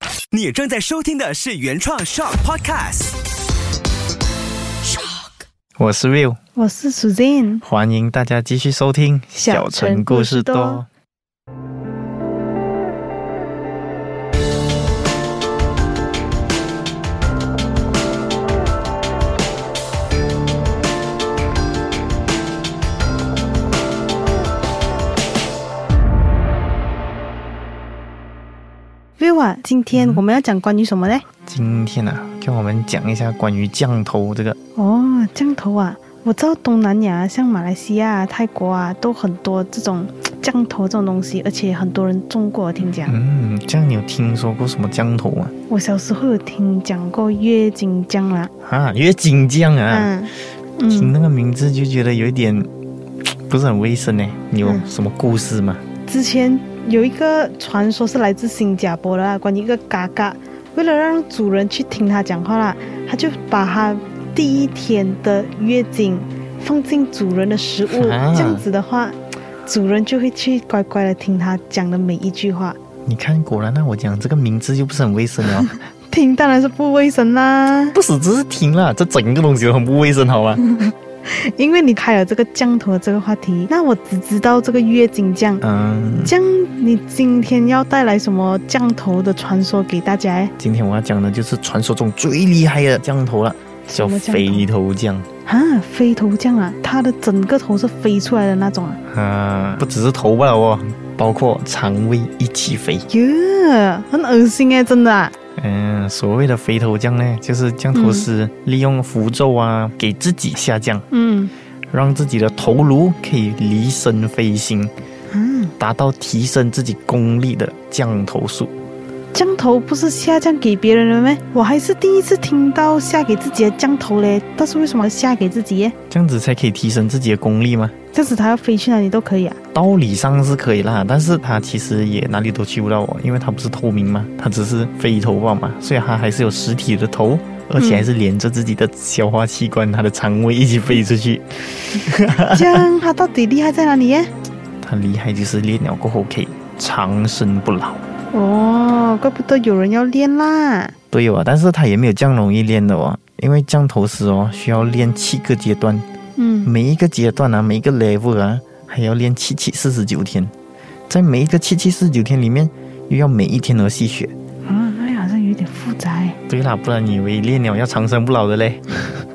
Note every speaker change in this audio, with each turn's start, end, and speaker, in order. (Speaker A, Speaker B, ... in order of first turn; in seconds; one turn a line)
Speaker A: 0.3-3.2
Speaker B: 5.8-6.4
Speaker C: 6.5-7.6
Speaker B: 7.6-10.9
Speaker C: 9.3-10.8
Speaker C: 29.2-31.2
Speaker B: 29.9-30.2
Speaker B: 31.4-34.6
Speaker C: 34.8-43.2
Speaker B: 43.0-45.5
Speaker C: 45.7-48.5
Speaker B: 48.6-50.1
Speaker C: 49.9-51.1
Speaker B: 50.9-52.7
Speaker B: 53.2-55.8
Speaker C: 54.6-54.9
Speaker C: 56.0-72.8
Speaker B: 67.9-68.6
Speaker B: 73.0-75.7
Speaker C: 75.7-78.0
Speaker B: 77.9-80.6
Speaker C: 81.2-85.6
Speaker B: 85.6-86.3
Speaker C: 86.2-90.5
Speaker B: 90.6-95.3
Speaker C: 93.9-94.7
Speaker C: 95.5-99.0
Speaker B: 99.1-103.1
Speaker C: 103.1-105.3
Speaker B: 105.6-111.0
Speaker C: 107.9-108.3
Speaker C: 111.1-111.5
Speaker B: 111.9-114.9
Speaker C: 115.3-115.7
Speaker B: 115.8-118.7
Speaker C: 119.3-125.9
Speaker B: 126.1-127.9
Speaker C: 128.1-129.6
Speaker B: 129.7-142.8
Speaker C: 137.8-138.1
Speaker C: 142.5-144.3
Speaker B: 144.8-148.0
Speaker C: 148.3-150.9
Speaker B: 151.1-156.0
Speaker C: 156.4-156.7
Speaker B: 156.6-160.5
Speaker B: 161.1-164.3
Speaker C: 164.7-166.4
Speaker B: 166.5-168.8